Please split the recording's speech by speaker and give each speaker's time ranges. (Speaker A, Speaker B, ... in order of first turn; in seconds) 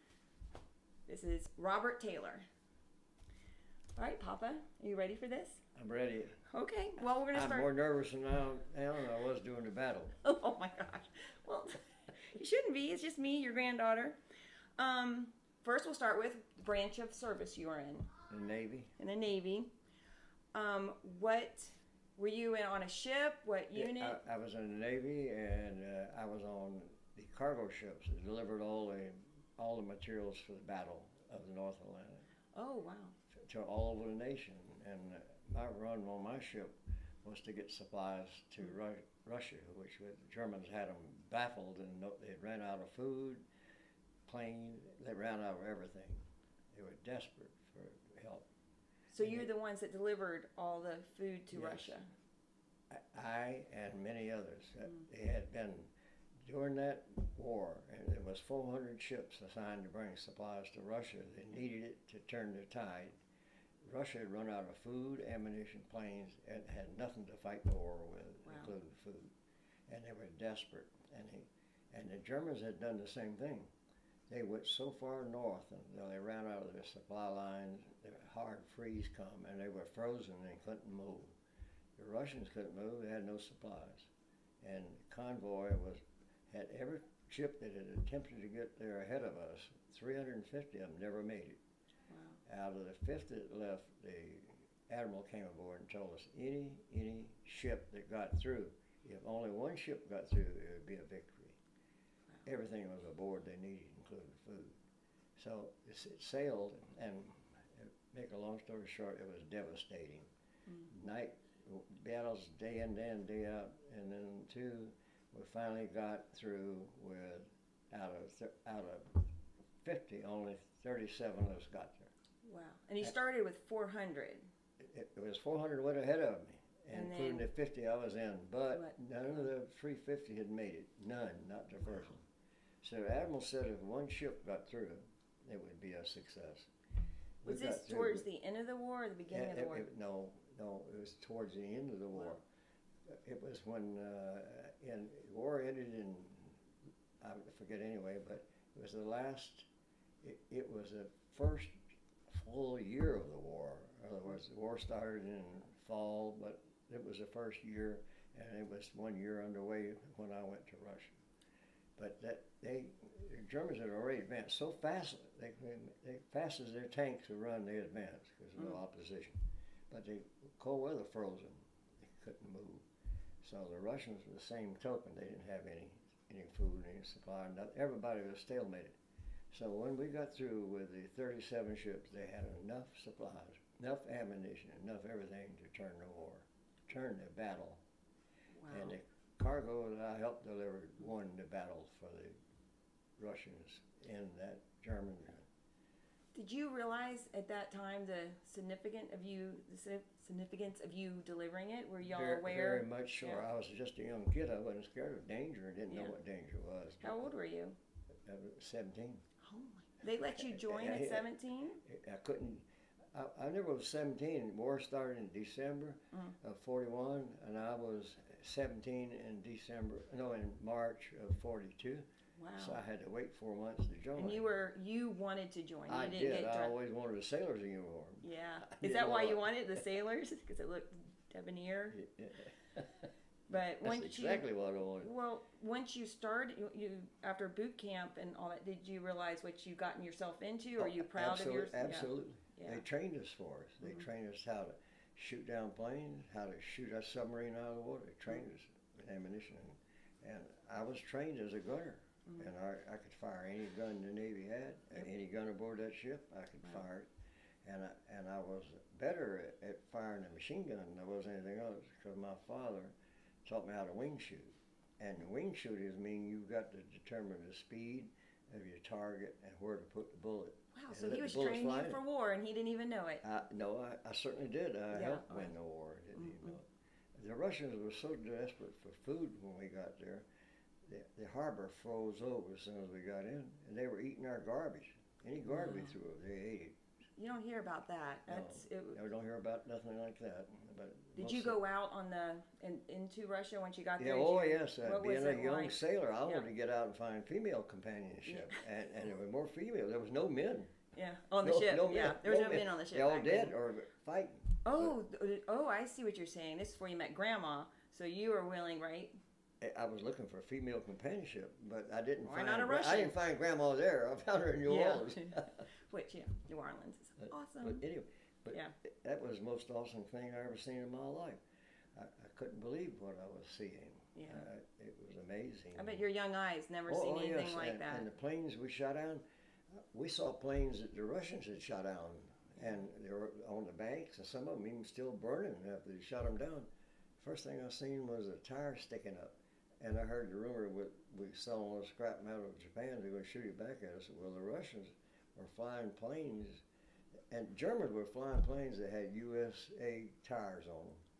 Speaker A: 1.1-2.5, 4.0-5.6, 6.5-7.7, 10.2-14.2, 14.8-18.1, 19.0-19.7, 20.5-24.2, 32.5-33.1, 49.1-52.1, 68.4-68.7, 92.1-92.4, 122.4-124.5, 126.9-127.5, 137.4-139.9, 188.6-189.0, 196.3-203.4, 205.9-206.1, 207.0-207.8, 209.4-211.8, 222.4-222.8, 224.2-226.7, 228.2-232.0, 233.5-234.5, 235.0-242.8, 270.7-273.2, 274.9-275.5, 276.1-276.5, 285.4-285.9, 287.2-289.0, 291.1-296.5, 298.3-298.6, 300.9-303.6, 304.6-309.1, 312.2-313.1, 314.6-317.8, 324.1-324.5, 325.7-328.1
Speaker B: 5.7-6.4, 7.3-10.2, 18.3-18.9, 23.7-32.3, 33.3-43.4, 44.2-48.5, 49.2-49.5, 51.5-52.0, 52.9-55.9, 56.4-63.2, 63.8-69.3, 69.9-73.7, 74.3-81.3, 82.0-84.1, 84.6-91.6, 92.4-101.6, 102.4-104.8, 105.3-110.3, 110.9-119.3, 119.8-122.1, 124.8-132.2, 132.8-136.7, 137.4-138.2, 139.3-142.4, 143.1-146.6, 147.2-149.7, 150.2-151.7, 152.3-161.2, 162.0-172.8, 173.4-178.9, 179.5-187.8, 188.7-192.3, 193.2-195.5, 202.0-207.3, 208.1-209.2, 210.3-211.3, 211.8-222.1, 222.6-224.4, 225.9-229.8, 231.9-233.1, 233.8-235.1, 240.8-257.1, 257.6-262.9, 263.4-272.0, 273.2-280.2, 280.8-286.8, 288.3-291.6, 294.0-300.7, 301.4-304.9, 309.6-315.6, 317.2-321.4, 321.9-326.0, 326.9-346.6, 347.3-351.0